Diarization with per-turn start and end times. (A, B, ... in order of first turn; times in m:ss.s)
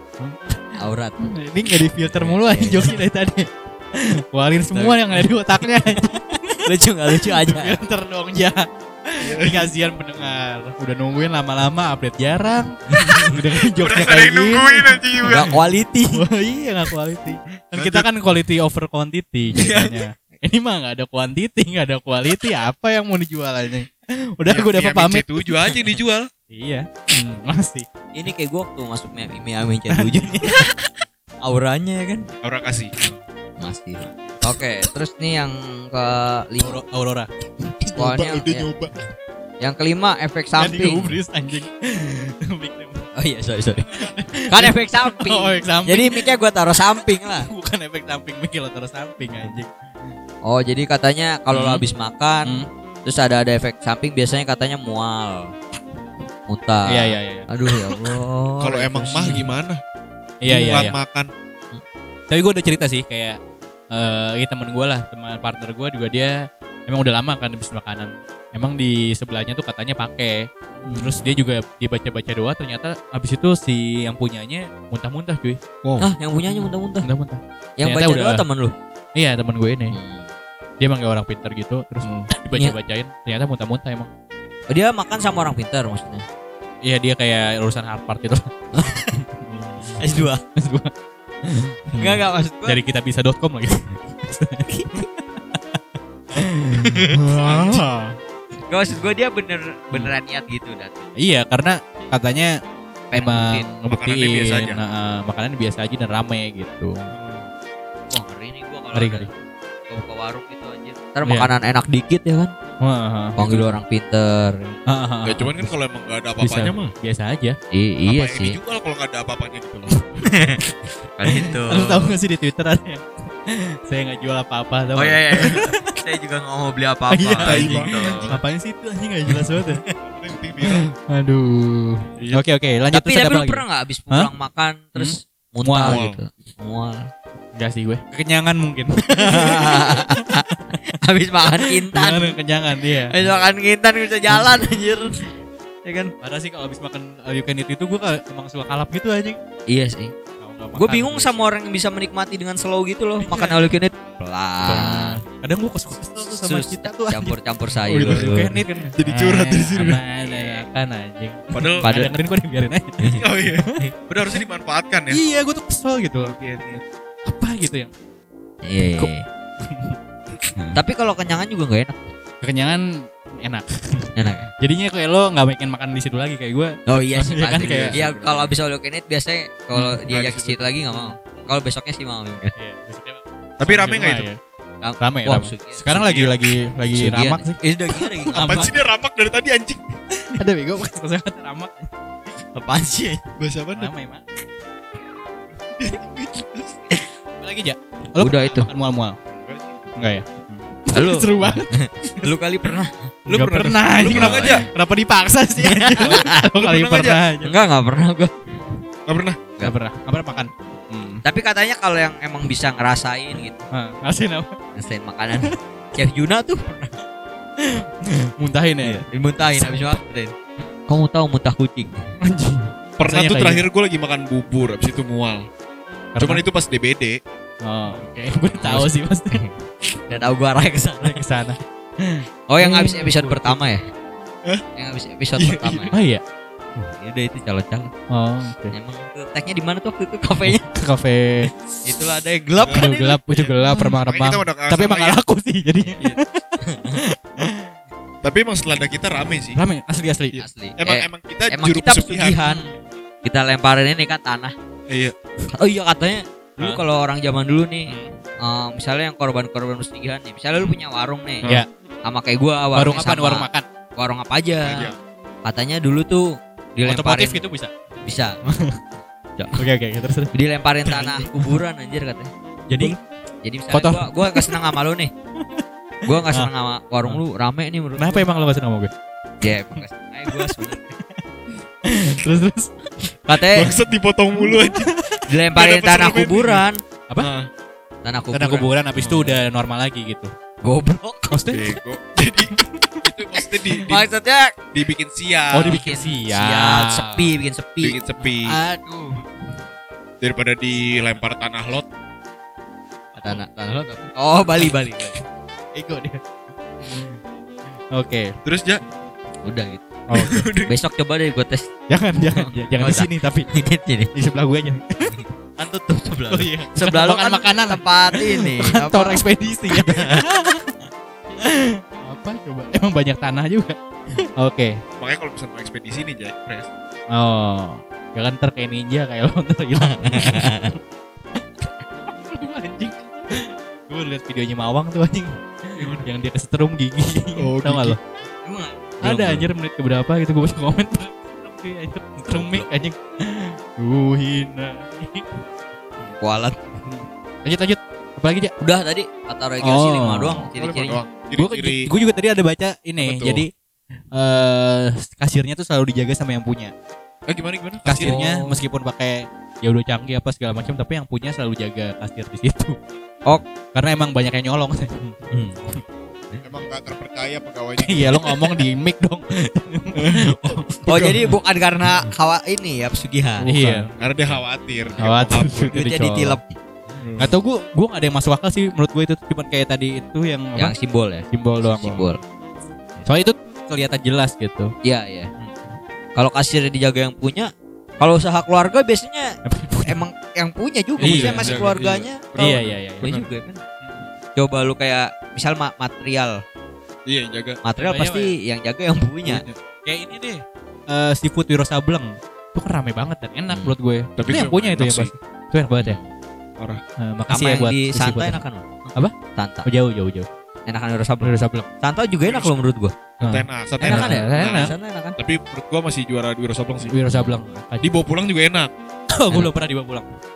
0:00.2-0:15.5 A
0:00.8-0:01.2 B
0:02.1-0:03.0 B
0:04.7-0:05.3 B
0:06.6-0:07.8 B
0:09.2-0:09.7 C
0:13.0-0:13.3 B
0:13.6-0:15.5 C
0:15.2-0:16.2 B
0:16.1-0:26.0 A
0:17.7-0:18.1 C
0:19.6-0:19.9 C
0:24.5-0:26.3 C
0:26.5-0:27.9 A
0:28.1-0:30.7 B
0:29.9-0:30.8 A
0:31.4-0:32.3 B
0:32.4-0:32.9 C
0:33.6-0:36.8 B
0:36.6-0:37.3 A
0:37.8-0:39.0 C
0:38.0-0:38.7 B
0:39.6-0:41.2 B
0:40.6-0:43.0 A
0:43.2-0:44.0 B
0:43.9-0:46.3 A
0:44.5-0:47.5 B
0:47.2-0:50.1 A
0:50.4-0:55.5 B
0:51.5-0:51.8 A
0:56.5-0:59.5 B
0:56.9-0:58.2 A
0:58.6-0:59.8 C
1:00.4-1:01.0 A
1:00.4-1:01.3 C
1:02.3-1:03.4 A
1:03.9-1:15.6 A
1:16.0-1:17.1 B
1:16.5-1:18.4 A
1:17.8-1:18.7 B
1:19.1-1:20.0 A
1:19.9-1:20.3 B
1:20.8-1:24.1 A
1:22.5-1:22.8 B
1:24.7-1:26.2 B
1:26.8-1:30.9 A
1:28.7-1:29.2 B
1:30.0-1:30.4 B
1:31.4-1:38.2 A
1:31.9-1:32.8 B
1:34.7-1:35.0 B
1:37.4-1:37.8 C
1:38.7-1:41.1 B
1:41.2-1:42.5 A
1:43.1-1:43.7 B
1:43.1-1:47.1 A
1:43.9-1:44.8 C
1:47.1-1:47.5 C
1:48.1-1:49.3 B
1:48.9-1:49.3 A
1:49.9-1:52.5 B
1:51.2-1:51.5 A
1:52.8-1:53.7 A
1:53.4-1:54.8 B
1:54.9-1:55.7 A
1:55.2-1:56.9 C
1:56.4-1:57.6 A
1:57.7-1:58.6 B
1:58.0-2:00.0 C
2:00.0-2:00.2 A
2:00.2-2:00.6 B
2:01.2-2:02.2 B
2:01.3-2:05.9 A
2:05.0-2:08.4 B
2:07.1-2:09.8 A
2:07.4-2:08.4 C
2:09.5-2:09.8 B
2:10.0-2:10.9 C
2:10.6-2:14.3 A
2:12.9-2:17.1 B
2:15.0-2:16.0 A
2:15.8-2:16.2 C
2:17.5-2:21.0 A
2:19.1-2:22.4 B
2:21.6-2:23.2 A
2:23.1-2:25.2 B
2:24.3-2:24.6 A
2:25.8-2:26.1 B
2:26.2-2:29.4 A
2:29.7-2:30.1 B
2:30.4-2:31.5 A
2:30.8-2:35.2 B
2:33.2-2:33.7 A
2:34.6-2:43.7 A
2:36.2-2:38.5 B
2:37.9-2:40.0 C
2:41.5-2:41.9 C
2:41.8-2:42.2 B
2:43.2-2:45.2 C
2:45.1-2:46.4 A
2:46.2-2:46.8 C
2:47.2-2:47.9 A
2:48.6-2:49.2 B
2:49.6-2:50.0 A
2:50.7-2:52.0 B
2:52.4-2:58.0 A
2:54.2-2:54.5 B
2:56.9-3:02.5 B
2:57.6-2:58.5 C
2:59.7-3:00.0 A
3:00.1-3:00.7 C
3:02.6-3:04.4 A
3:03.6-3:04.3 C
3:04.8-3:06.0 B
3:05.0-3:08.7 A
3:05.9-3:06.5 C
3:06.9-3:08.7 B
3:08.3-3:09.8 C
3:10.2-3:11.9 A
3:12.5-3:13.2 B
3:13.4-3:13.9 C
3:13.8-3:14.2 A
3:15.6-3:16.8 C
3:17.4-3:19.2 A
3:18.2-3:18.7 B
3:19.3-3:19.8 C
3:20.0-3:22.3 A
3:20.9-3:23.1 B
3:23.3-3:24.6 C
3:23.3-3:27.6 A
3:24.1-3:24.6 B
3:25.6-3:26.5 B
3:26.6-3:27.2 C
3:27.4-3:28.3 B
3:29.1-3:29.4 C
3:29.6-3:31.2 A
3:31.2-3:33.6 B
3:33.7-3:34.5 A
3:34.8-3:37.0 B
3:37.6-3:40.0 A
3:38.8-3:40.3 B
3:40.9-3:42.0 B
3:42.2-3:43.6 A
3:43.0-3:45.5 C
3:46.2-3:46.4 A
3:46.2-3:47.2 C
3:47.6-3:49.4 A
3:48.6-3:49.5 B
3:50.1-3:51.2 B
3:51.0-3:53.7 A
3:52.5-3:53.8 B
3:54.8-3:56.0 B
3:55.4-3:55.9 C
3:55.9-3:56.2 A
3:56.8-3:57.9 B
3:58.1-3:58.8 A
3:58.7-4:00.6 B
4:00.4-4:01.5 A
4:01.8-4:03.5 B
4:02.6-4:02.9 C
4:02.7-4:07.7 A
4:03.9-4:05.2 C
4:06.0-4:07.0 B
4:08.2-4:09.6 C
4:09.5-4:10.4 A
4:10.3-4:12.4 C
4:10.4-4:12.7 B
4:13.2-4:14.5 B
4:14.9-4:15.1 C
4:15.5-4:21.4 B
4:17.9-4:18.2 A
4:22.0-4:24.9 B
4:22.8-4:23.7 A
4:24.6-4:25.0 C
4:25.4-4:27.4 B
4:26.8-4:27.7 A
4:28.0-4:28.4 B
4:28.4-4:28.8 A
4:29.4-4:29.6 B
4:29.6-4:30.3 A
4:30.3-4:35.1 B
4:32.7-4:33.0 A
4:33.7-4:34.6 A
4:36.0-4:38.2 B
4:36.2-4:36.5 A
4:38.0-4:38.9 A
4:39.4-4:41.0 B
4:39.8-4:41.2 A
4:41.8-4:43.8 A
4:43.3-4:43.7 B
4:43.5-4:44.9 C
4:44.4-4:45.2 A
4:45.3-4:46.8 B
4:45.5-4:46.6 C
4:47.2-4:47.5 C
4:48.0-4:48.7 B
4:48.3-4:50.3 A
4:49.0-4:49.4 C
4:50.6-4:51.4 B
4:51.3-4:51.8 A
4:51.5-4:54.0 C
4:52.5-4:53.0 A
4:53.8-4:54.6 B
4:54.7-4:55.8 C
4:55.5-4:57.3 A
4:55.6-4:58.0 B
4:57.8-4:58.6 C
4:58.5-4:59.2 A
5:00.2-5:01.8 C
5:03.2-5:05.2 B
5:05.8-5:06.2 A
5:06.8-5:07.2 A
5:07.9-5:08.3 A
5:08.4-5:08.8 C
5:09.4-5:09.9 B
5:10.1-5:10.5 A
5:10.1-5:10.7 C
5:10.6-5:11.7 B
5:11.9-5:13.5 A
5:12.3-5:14.1 B
5:14.1-5:15.2 A
5:15.2-5:20.2 B
5:16.3-5:20.9 A
5:21.4-5:24.8 A
5:25.0-5:26.7 C
5:27.1-5:30.8 A
5:29.8-5:30.8 B
5:32.0-5:38.0 A
5:35.8-5:36.1 C
5:37.4-5:38.0 C
5:38.4-5:39.4 B
5:39.0-5:45.4 A
5:42.3-5:42.7 B
5:46.0-5:46.7 B
5:46.9-5:48.5 A
5:48.6-5:51.0 B
5:49.6-5:50.5 A
5:50.6-5:51.9 C
5:51.4-5:53.5 A
5:53.0-5:53.4 C
5:54.1-5:56.7 A
5:57.3-5:58.2 C
5:57.8-6:02.8 A
5:58.0-5:58.6 B
6:03.7-6:05.8 A
6:05.3-6:05.6 B
6:06.4-6:08.6 C
6:07.8-6:10.8 A
6:10.0-6:11.3 C
6:10.8-6:13.8 B
6:13.4-6:13.9 A
6:14.0-6:15.7 C
6:14.9-6:16.5 B
6:15.0-6:16.4 A
6:17.0-6:17.3 C
6:17.2-6:20.7 A
6:20.6-6:21.2 B
6:21.3-6:22.1 A
6:21.8-6:22.2 B
6:23.0-6:24.7 A
6:24.8-6:25.3 B
6:26.2-6:33.6 B
6:29.5-6:30.0 A
6:31.0-6:31.8 A
6:31.0-6:33.2 C
6:32.4-6:33.2 A
6:34.4-6:36.4 B
6:37.1-6:37.6 C
6:37.6-6:39.4 B
6:37.8-6:38.3 A
6:39.8-6:46.0 A
6:44.2-6:45.1 C
6:45.8-6:46.1 B
6:47.0-6:48.4 A
6:47.3-6:49.7 B
6:49.6-6:50.3 A
6:50.7-6:53.0 B
6:51.2-6:51.7 A
6:52.2-6:52.6 C
6:53.2-6:54.8 A
6:53.2-6:57.0 C
6:53.8-6:55.2 B
6:56.8-6:57.9 A
6:57.1-6:57.4 B
6:57.8-6:58.7 C
6:59.1-7:00.1 A